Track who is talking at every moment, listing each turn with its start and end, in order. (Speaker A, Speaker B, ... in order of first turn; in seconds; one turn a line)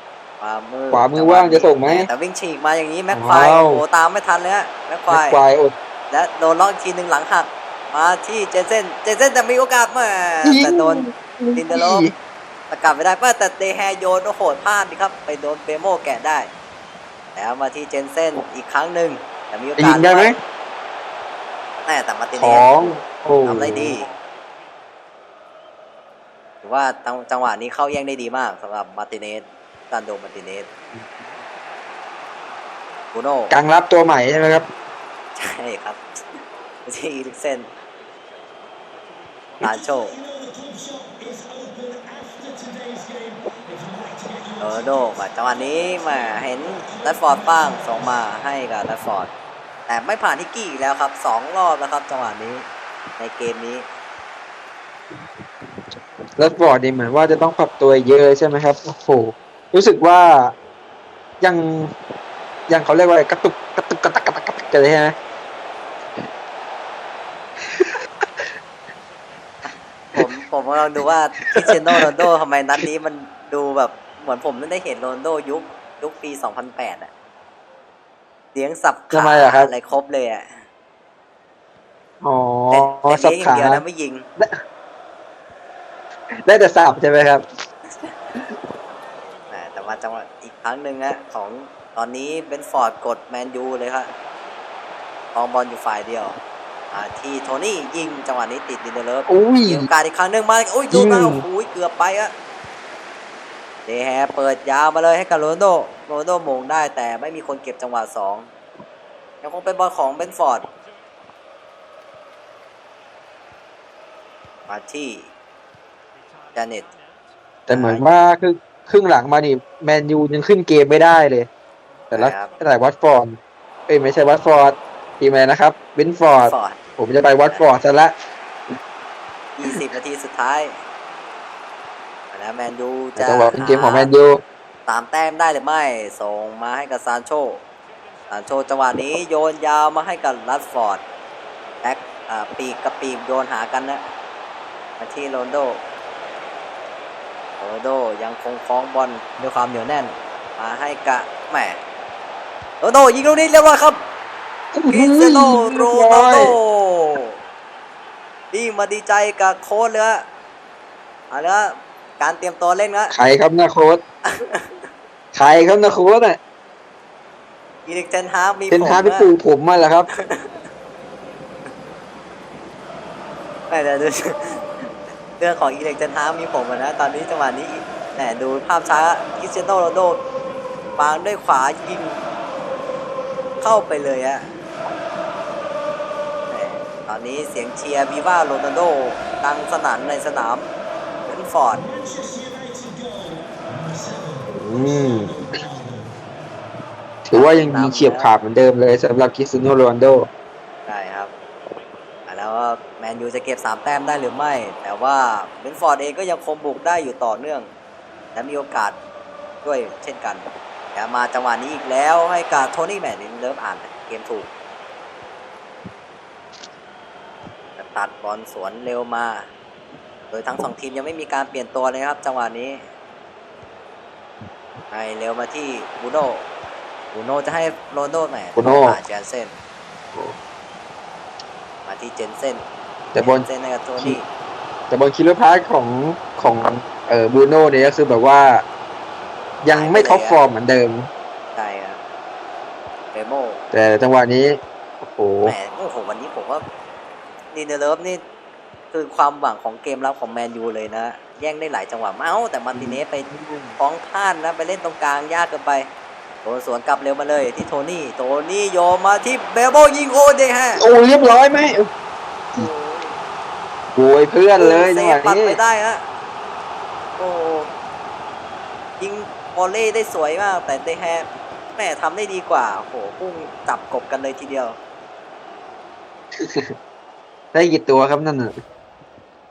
Speaker A: 0.4-5.4
Speaker B: 0.9-2.1
Speaker B: 3.1-3.8
Speaker B: 5.1-5.7
Speaker A: 6.1-12.1
Speaker B: 10.4-12.1
Speaker A: 12.7-16.5
Speaker A: 17.3-20.3
Speaker B: 19.8-20.4
Speaker A: 21.9-24.1
Speaker B: 22.3-24.0
Speaker A: 26.6-30.7
Speaker A: 33.1-33.6
Speaker B: 33.5-34.7
Speaker A: 35.4-36.2
Speaker A: 36.9-37.7
Speaker A: 39.6-40.2
Speaker A: 44.6-49.3
Speaker A: 49.9-52.7
Speaker A: 53.2-53.9
Speaker B: 56.4-60.5
Speaker B: 61.4-61.9
Speaker B: 62.7-65.1
Speaker B: 67.6-67.9
Speaker A: 70.1-77.1
Speaker B: 71.7-72.0
Speaker A: 78.5-80.5
Speaker B: 79.1-79.7
Speaker B: 82.2-83.8
Speaker A: 82.7-84.2
Speaker B: 86.4-87.4
Speaker A: 89.5-94.1
Speaker A: 95.3-96.4
Speaker A: 96.9-102.3
Speaker B: 99.3-99.9
Speaker B: 100.9-101.4
Speaker A: 103.9-108.5
Speaker A: 109.4-110.7
Speaker A: 114.7-115.3
Speaker A: 116.5-116.9
Speaker B: 117.7-121.5
Speaker A: 117.7-118.0
Speaker B: 122.1-123.4
Speaker A: 122.1-122.5
Speaker B: 123.9-128.1
Speaker A: 126.3-126.8
Speaker A: 129.6-130.8
Speaker A: 132.3-134.1
Speaker B: 133.2-134.4
Speaker A: 134.9-137.6
Speaker A: 138.3-141.0
Speaker A: 141.8-144.1
Speaker A: 145.0-145.8
Speaker A: 147.6-151.8
Speaker A: 152.8-154.0
Speaker B: 154.7-156.6
Speaker A: 154.9-157.3
Speaker A: 158.5-160.2
Speaker A: 161.3-163.1
Speaker B: 163.1-164.0
Speaker A: 164.2-164.8
Speaker B: 165.3-166.4
Speaker A: 167.8-169.3
Speaker B: 168.7-170.1
Speaker A: 170.2-170.6
Speaker A: 173.7-180.2
Speaker A: 181.0-182.2
Speaker A: 183.6-184.5
Speaker A: 186.5-190.7
Speaker A: 191.3-191.9
Speaker B: 194.5-195.5
Speaker B: 197.2-200.3
Speaker A: 197.3-198.3
Speaker A: 200.8-201.3
Speaker A: 202.3-207.7
Speaker A: 208.3-208.9
Speaker A: 209.6-214.5
Speaker A: 217.8-219.5
Speaker A: 220.3-222.8
Speaker A: 224.9-226.5
Speaker A: 227.1-229.5
Speaker B: 228.6-229.0
Speaker A: 231.8-232.6
Speaker B: 233.1-233.4
Speaker A: 233.2-234.3
Speaker B: 234.9-238.6
Speaker B: 239.6-241.1
Speaker A: 239.7-240.4
Speaker A: 241.5-242.0
Speaker A: 243.1-243.6
Speaker B: 243.7-245.5
Speaker A: 245.4-246.6
Speaker A: 247.5-248.2
Speaker A: 248.9-255.9
Speaker B: 252.7-253.7
Speaker A: 256.4-260.8
Speaker B: 260.8-261.9
Speaker A: 262.5-263.2
Speaker B: 263.9-265.6
Speaker A: 264.6-266.0
Speaker A: 267.2-267.7
Speaker A: 269.0-274.8
Speaker B: 276.4-276.7
Speaker B: 277.5-278.5